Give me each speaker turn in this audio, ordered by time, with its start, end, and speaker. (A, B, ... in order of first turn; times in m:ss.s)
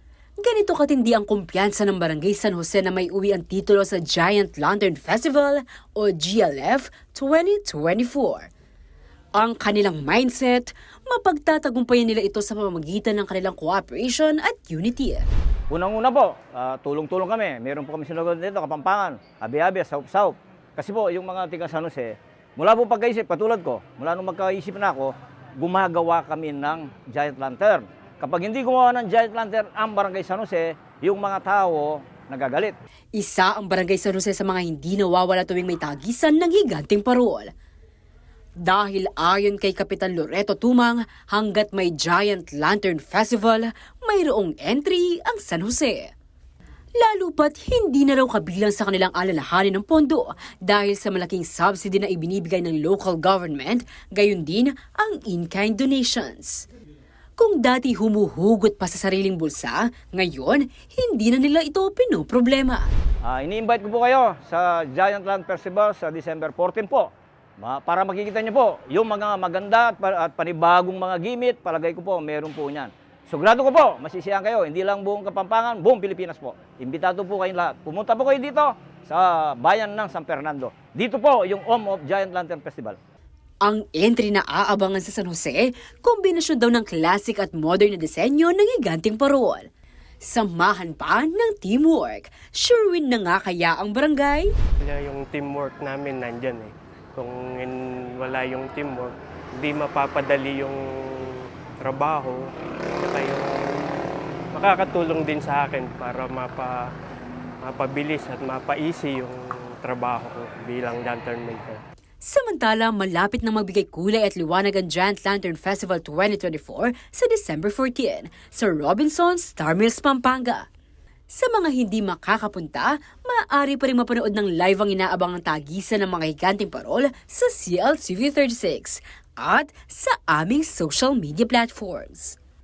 0:00.4-0:08.5 A
0:09.4-0:15.3 A
0:15.7-0:32.8 B
0:33.2-0:37.5 A
0:38.6-0:46.1 A
0:47.0-0:56.6 A
0:57.4-1:02.9 A
1:03.2-1:23.0 B
1:23.6-1:29.7 A
1:30.2-1:34.5 A
1:34.8-1:42.5 C
1:43.0-1:43.9 C
1:44.5-1:46.8 C
1:47.7-1:51.8 C
1:52.2-2:00.7 A
2:01.3-2:12.4 A